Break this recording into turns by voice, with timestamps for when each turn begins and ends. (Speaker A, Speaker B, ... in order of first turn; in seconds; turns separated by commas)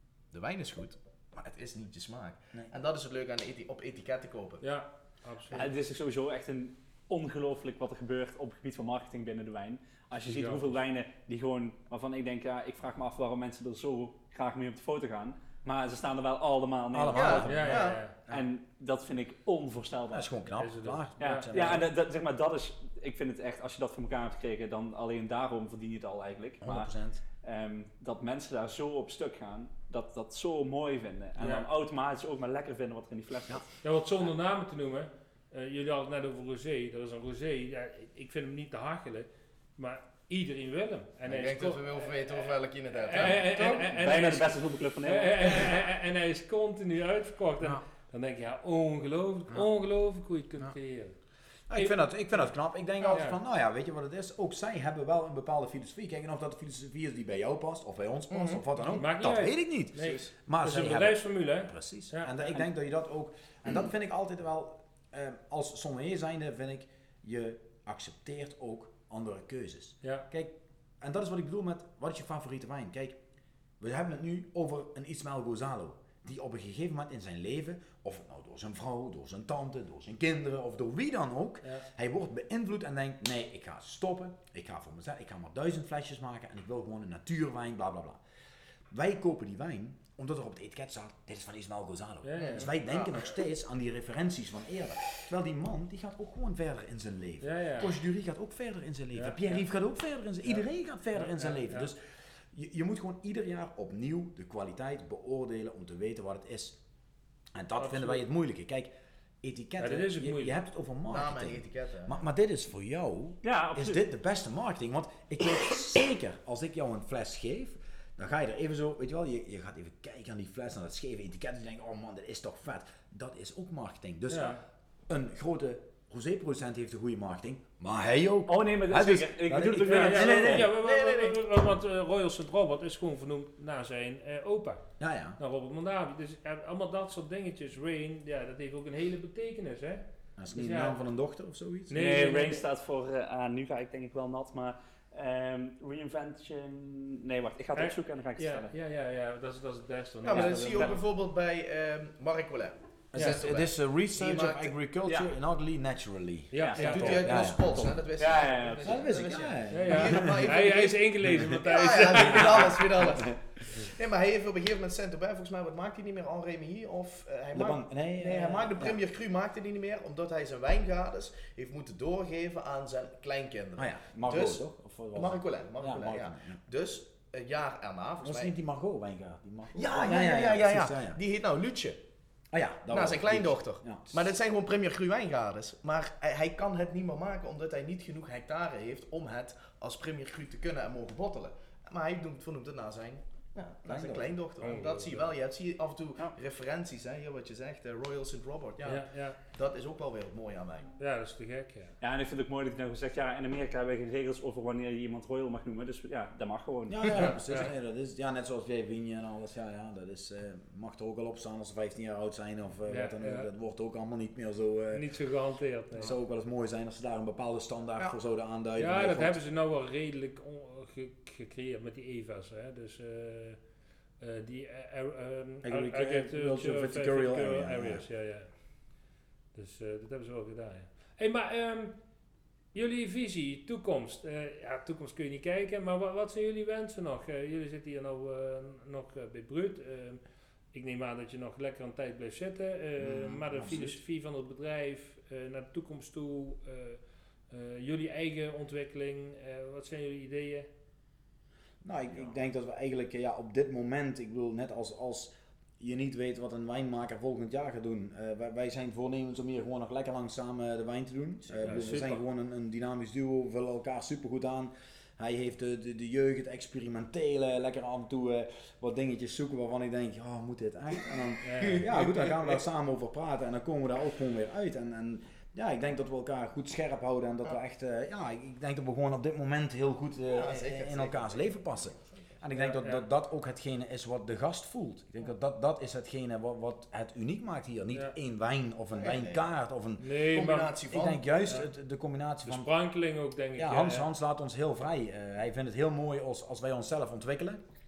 Speaker A: 0.3-4.6, Speaker B: 4.6-5.6, Speaker C: 5.5-17.7, Speaker B: 10.2-10.6, Speaker D: 16.9-18.4, Speaker A: 17.1-18.0, Speaker B: 17.4-18.1, Speaker C: 18.3-20.3, Speaker D: 20.1-21.9, Speaker B: 20.6-21.5, Speaker C: 21.2-26.9, Speaker D: 26.6-27.2, Speaker C: 27.4-33.6, Speaker B: 31.4-31.6, Speaker B: 33.8-51.1, Speaker A: 41.2-44.0, Speaker C: 43.9-45.7, Speaker D: 51.7-73.2, Speaker B: 51.8-52.5, Speaker B: 53.1-53.4, Speaker A: 58.3-58.6, Speaker B: 58.9-62.5, Speaker D: 73.8-88.2, Speaker D: 88.9-102.0, Speaker B: 92.2-92.7, Speaker A: 92.3-93.3, Speaker B: 97.4-98.0, Speaker B: 99.1-99.4, Speaker B: 101.2-101.9, Speaker D: 102.5-106.8, Speaker D: 107.5-108.9, Speaker B: 107.8-108.2, Speaker D: 109.4-131.3, Speaker B: 109.8-110.6, Speaker A: 111.1-112.2, Speaker C: 113.4-114.0, Speaker B: 124.3-124.6, Speaker C: 128.5-130.7, Speaker B: 129.8-134.8, Speaker D: 135.0-135.4, Speaker B: 135.4-141.0, Speaker D: 140.4-141.9, Speaker B: 141.9-142.6, Speaker C: 141.9-148.7, Speaker B: 147.8-151.0, Speaker A: 150.2-154.7, Speaker D: 150.3-150.9, Speaker D: 153.1-157.9, Speaker B: 153.1-153.4, Speaker B: 156.5-157.5, Speaker C: 156.6-159.1, Speaker A: 156.8-178.5, Speaker D: 158.8-160.5, Speaker B: 159.7-162.8, Speaker D: 161.2-163.2, Speaker D: 167.5-169.0, Speaker D: 173.8-176.6, Speaker D: 178.2-181.2, Speaker A: 179.7-182.0, Speaker D: 182.5-184.2, Speaker A: 182.9-200.9, Speaker D: 193.9-194.3, Speaker B: 194.6-195.3, Speaker B: 198.8-199.4, Speaker B: 201.0-201.9, Speaker C: 202.0-207.4, Speaker D: 206.9-215.1, Speaker B: 212.9-213.5, Speaker B: 214.9-216.1, Speaker D: 215.9-219.4, Speaker B: 218.8-223.6, Speaker B: 224.2-228.6, Speaker D: 225.6-228.0, Speaker B: 229.5-232.0, Speaker B: 232.7-240.2, Speaker B: 240.7-250.7, Speaker D: 243.0-244.0, Speaker D: 251.8-290.1, Speaker B: 261.6-262.2, Speaker B: 271.4-272.6, Speaker A: 280.3-282.4, Speaker B: 282.5-283.1, Speaker A: 288.9-289.4, Speaker B: 290.0-290.8, Speaker A: 290.2-291.5, Speaker D: 290.9-292.7, Speaker B: 292.4-294.1, Speaker D: 293.6-297.6